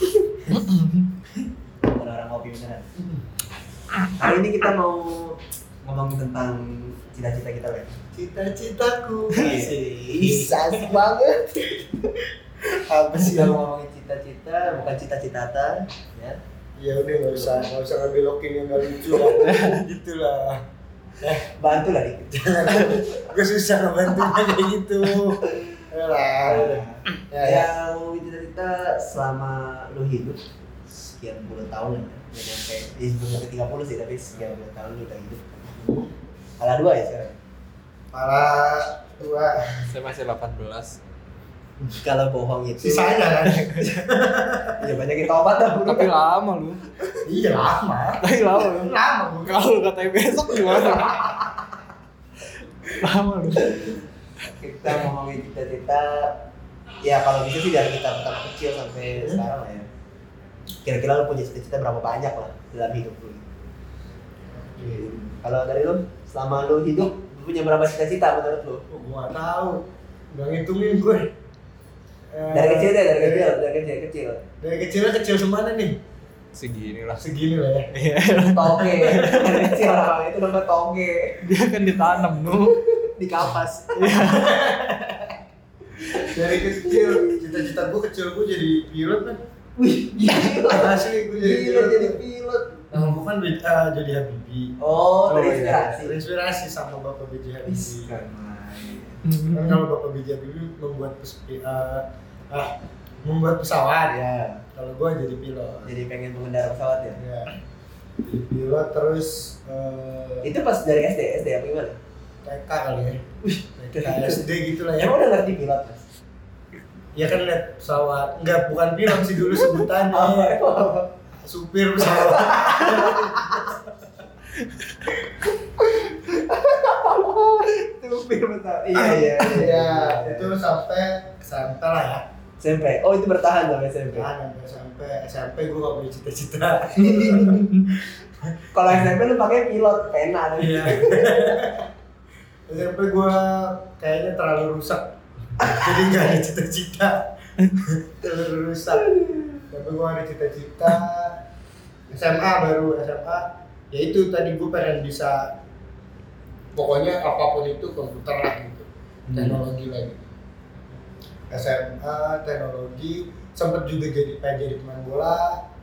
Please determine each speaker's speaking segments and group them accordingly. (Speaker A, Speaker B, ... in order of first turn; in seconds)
Speaker A: 0.5-1.1, 19.3-19.8, 22.7-23.0, 39.8-41.0, 43.5-43.9, 45.8-46.9, 48.2-51.4, 52.8-54.0, 76.5-77.2, 77.9-79.9, 81.4-82.8, 83.9-84.6, 95.3-96.0, 99.2-99.8, 137.0-137.9
Speaker B: 1.8-2.9, 4.1-8.0, 9.3-11.5, 13.1-16.4, 17.3-17.7, 21.5-22.9, 26.4-35.7, 36.6-37.4, 41.8-43.4, 44.8-46.1, 53.6-56.5, 57.0-59.9, 60.8-63.4, 64.8-68.8, 72.5-74.4, 78.5-81.4, 82.4-84.3, 86.0-87.5, 89.8-92.9, 94.8-96.2, 97.6-99.2, 104.1-104.6, 105.8-107.2, 110.4-112.0, 113.4-114.4, 115.0-116.0, 120.1-121.1, 122.0-123.7, 125.8-130.5, 132.6-134.3, 137.0-137.6, 138.7-141.6, 149.1-149.6, 159.3-159.6
Speaker C: 8.1-11.2, 12.6-13.6, 16.8-20.6, 21.2-21.5, 22.3-27.7, 35.7-36.1, 38.1-39.9, 42.8-44.8, 47.2-49.7, 50.7-51.2, 59.1-59.4, 64.6-65.1, 68.9-71.3, 72.3-73.5, 74.6-76.0, 77.2-77.9, 79.0-79.2, 84.2-85.4, 86.0-89.4, 90.3-92.2, 92.9-94.8, 96.0-98.1, 99.5-104.2, 104.7-105.9, 107.2-107.5, 108.2-110.5, 112.4-113.2, 113.8-115.2, 117.1-120.6, 121.4-123.9, 129.0-132.3, 134.1-139.0, 140.6-141.9, 142.7-151.4, 152.1-155.6, 156.7-160.2, 161.5-165.6